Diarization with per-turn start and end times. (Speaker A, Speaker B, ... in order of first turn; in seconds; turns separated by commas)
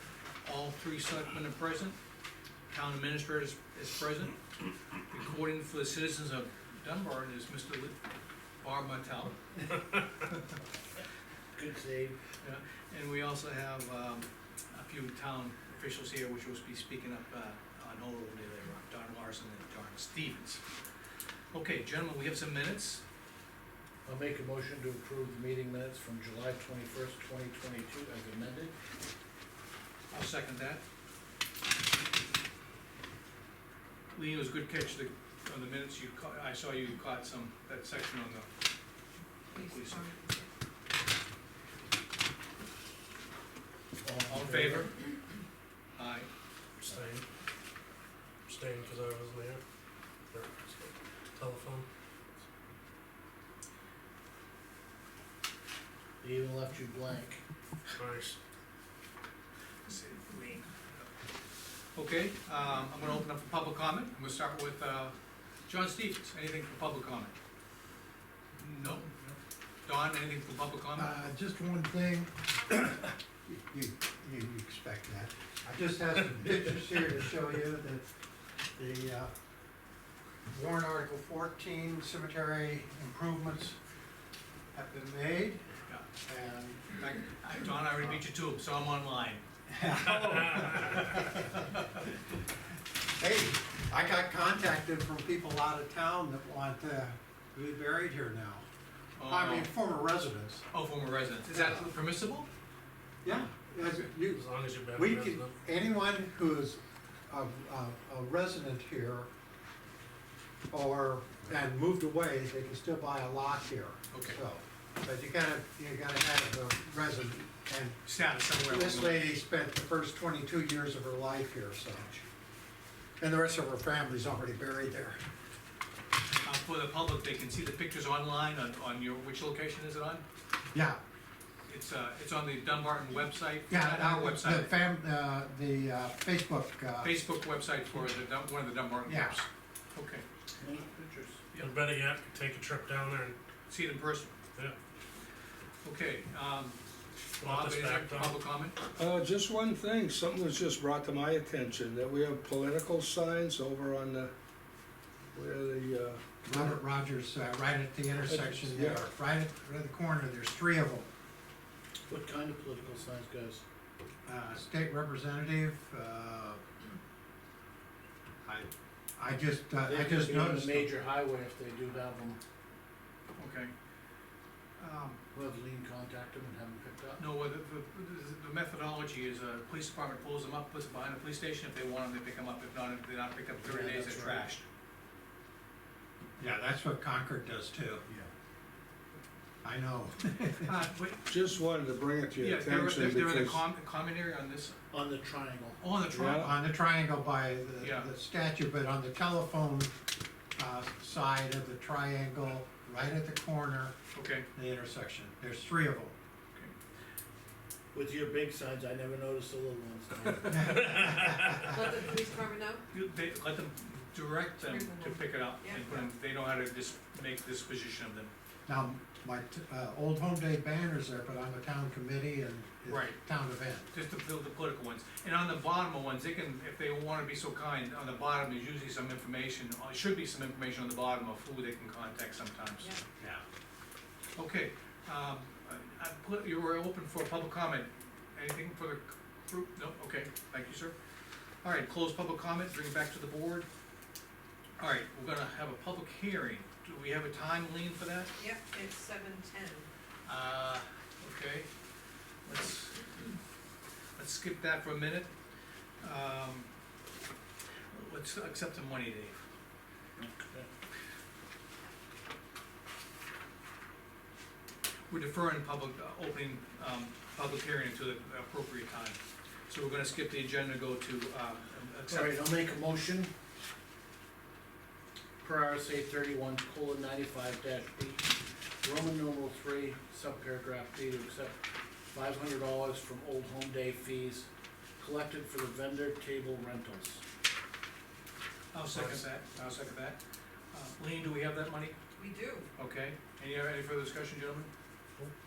Speaker A: 0.4-2.0, Speaker A: 2.7-4.4, Speaker A: 5.1-8.0, Speaker A: 8.6-9.4, Speaker B: 11.6-12.2, Speaker A: 12.4-20.6, Speaker A: 21.5-23.0, Speaker B: 24.1-28.8, Speaker A: 30.1-30.8, Speaker A: 34.1-38.5, Speaker C: 39.5-40.5, Speaker A: 39.6-40.1, Speaker B: 44.0-44.9, Speaker A: 44.3-44.9, Speaker A: 46.0-46.3, Speaker D: 46.8-47.2, Speaker D: 48.5-49.6, Speaker D: 50.3-51.9, Speaker B: 56.2-57.4, Speaker D: 58.0-58.4, Speaker A: 59.9-60.7, Speaker A: 62.0-65.2, Speaker A: 65.7-67.3, Speaker A: 68.6-71.1, Speaker E: 71.0-78.1, Speaker E: 78.8-79.3, Speaker E: 80.5-83.8, Speaker E: 84.7-85.7, Speaker E: 86.3-86.8, Speaker A: 86.9-89.4, Speaker E: 89.7-92.2, Speaker E: 93.2-98.7, Speaker A: 99.2-99.7, Speaker E: 99.3-100.7, Speaker A: 100.7-102.5, Speaker E: 101.5-101.9, Speaker E: 103.2-109.3, Speaker A: 103.8-104.1, Speaker D: 104.2-105.5, Speaker E: 110.7-118.0, Speaker A: 114.1-114.4, Speaker A: 118.0-119.3, Speaker E: 118.6-122.1, Speaker A: 122.0-122.2, Speaker E: 123.2-125.2, Speaker A: 126.4-130.2, Speaker E: 130.7-131.0, Speaker A: 131.7-134.7, Speaker E: 133.7-137.2, Speaker A: 137.0-140.2, Speaker E: 139.1-139.4, Speaker B: 140.6-141.4, Speaker D: 141.6-143.4, Speaker A: 143.7-144.3, Speaker A: 145.8-146.8, Speaker A: 147.3-148.8, Speaker D: 147.4-148.4, Speaker F: 149.0-154.3, Speaker F: 155.3-156.8, Speaker E: 156.4-161.1, Speaker F: 158.2-159.1, Speaker B: 162.1-163.6, Speaker E: 164.2-166.6, Speaker E: 168.4-170.9, Speaker B: 169.8-172.4, Speaker A: 173.4-173.7, Speaker A: 174.8-175.2, Speaker B: 175.3-177.2, Speaker A: 177.2-184.6, Speaker B: 183.6-184.5, Speaker E: 186.4-188.0, Speaker E: 189.6-190.7, Speaker A: 190.6-191.3, Speaker F: 191.3-193.6, Speaker A: 192.4-194.8, Speaker B: 194.9-196.2, Speaker A: 195.8-196.5, Speaker F: 196.1-196.5, Speaker E: 196.4-199.9, Speaker A: 197.8-198.1, Speaker E: 200.6-203.9, Speaker A: 204.1-204.5, Speaker E: 204.5-206.2, Speaker B: 207.9-210.9, Speaker E: 210.5-211.8, Speaker C: 211.6-212.8, Speaker A: 212.9-218.3, Speaker C: 214.6-216.0, Speaker E: 218.7-223.9, Speaker A: 222.9-223.2, Speaker A: 223.9-232.9, Speaker A: 234.4-240.9, Speaker A: 241.6-243.7, Speaker A: 244.8-248.3, Speaker C: 248.4-249.9, Speaker A: 250.3-251.7, Speaker A: 252.4-253.1, Speaker A: 254.2-255.3, Speaker A: 256.0-256.7, Speaker A: 257.9-259.4, Speaker B: 260.2-260.7, Speaker A: 265.1-269.2, Speaker A: 269.7-272.4, Speaker B: 272.1-273.3, Speaker B: 275.4-278.2, Speaker B: 278.8-281.6, Speaker B: 282.1-284.5, Speaker B: 285.0-287.2, Speaker A: 288.7-290.2, Speaker D: 288.9-289.2, Speaker A: 290.7-292.0, Speaker C: 292.2-292.7, Speaker A: 292.8-294.7